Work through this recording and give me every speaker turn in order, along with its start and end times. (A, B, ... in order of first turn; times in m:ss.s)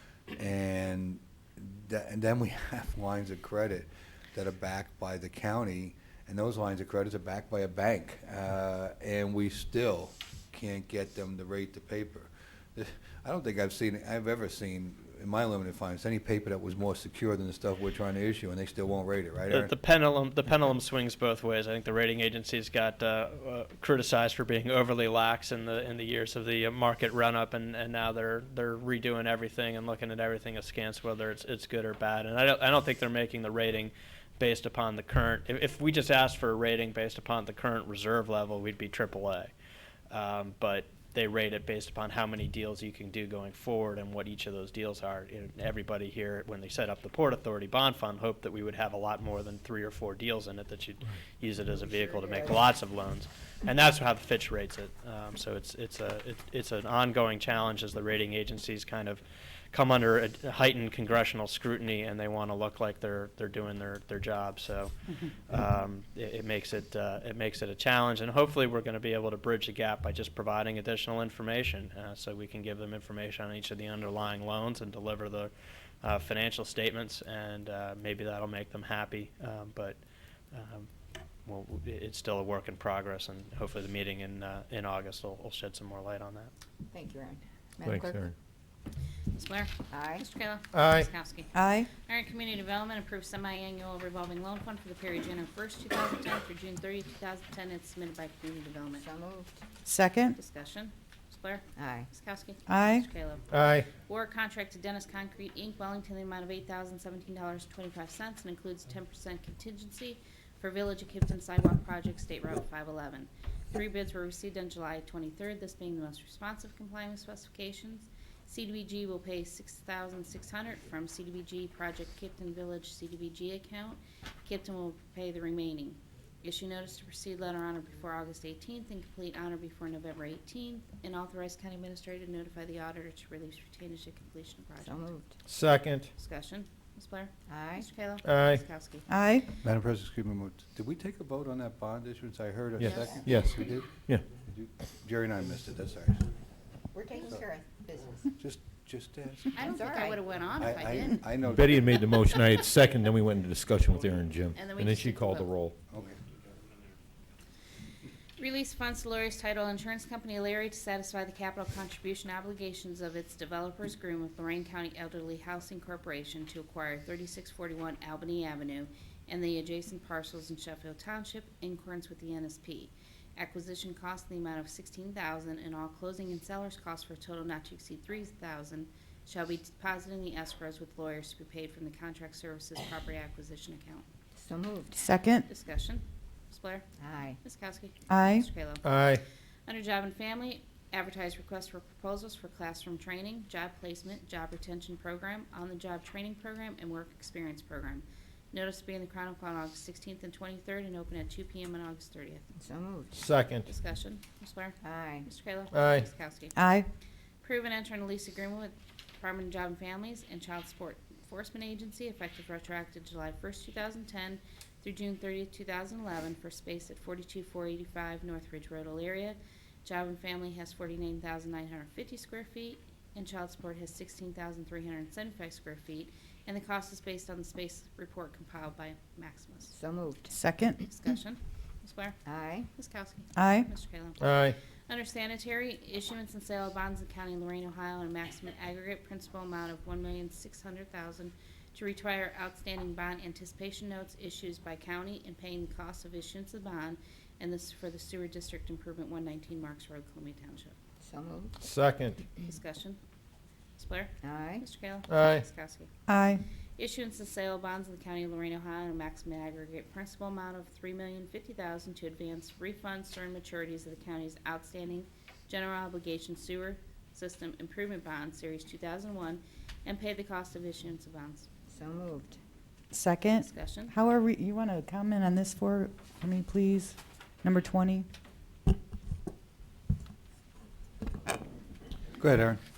0:00.3-0:19.7 A
0:19.5-0:39.5 B
0:40.1-0:59.2 B
0:51.9-0:52.6 C
0:59.7-1:15.5 B
1:16.0-1:20.0 B
1:20.5-1:20.9 B
1:21.4-1:26.5 B
1:26.9-1:28.2 C
1:27.8-1:28.3 D
1:29.3-1:39.0 E
1:29.9-1:30.2 C
1:30.7-1:31.1 D
1:31.5-1:31.9 F
1:39.0-1:39.6 C
1:39.8-1:40.4 F
1:40.3-2:15.1 E
1:41.8-1:42.1 C
1:42.7-1:43.1 F
1:43.5-1:43.9 D
2:14.8-2:15.3 C
2:15.5-2:16.1 D
2:16.1-2:19.1 E
2:17.5-2:17.9 C
2:18.2-2:18.6 D
2:19.1-2:19.4 F
2:19.6-2:26.3 A
2:22.8-2:24.2 D
2:22.8-2:23.3 E
2:26.9-2:28.3 C
2:28.4-2:29.6 A
2:29.5-2:31.3 E
2:29.6-2:30.2 C
2:30.5-2:31.8 A
2:31.4-2:35.7 D
2:34.5-2:35.5 E
2:35.9-2:36.2 A
2:38.4-3:04.0 E
3:04.4-3:05.0 C
3:05.0-3:05.4 F
3:05.4-3:06.9 E
3:07.0-3:07.4 C
3:07.4-3:08.8 E
3:08.1-3:08.4 F
3:08.8-3:09.2 D
3:09.7-3:22.4 E
3:22.6-3:23.1 C
3:23.1-3:23.7 D
3:23.6-3:26.6 E
3:24.8-3:25.3 C
3:25.7-3:26.1 D
3:26.6-3:26.9 F
3:27.4-3:49.7 E
3:49.7-3:50.3 C
3:50.3-3:50.8 F
3:50.8-4:10.7 E
3:52.2-3:52.7 C
3:53.3-3:53.7 F
3:54.2-3:54.6 D
4:11.0-4:11.5 C
4:11.6-4:12.3 D
4:12.4-4:13.0 E
4:13.8-4:15.9 E
4:14.2-4:14.6 C
4:15.1-4:15.4 D
4:16.1-4:16.4 F
4:16.8-4:31.5 E
4:31.7-4:32.4 C
4:32.9-4:38.1 F
4:33.4-4:34.0 E
4:42.2-4:42.6 A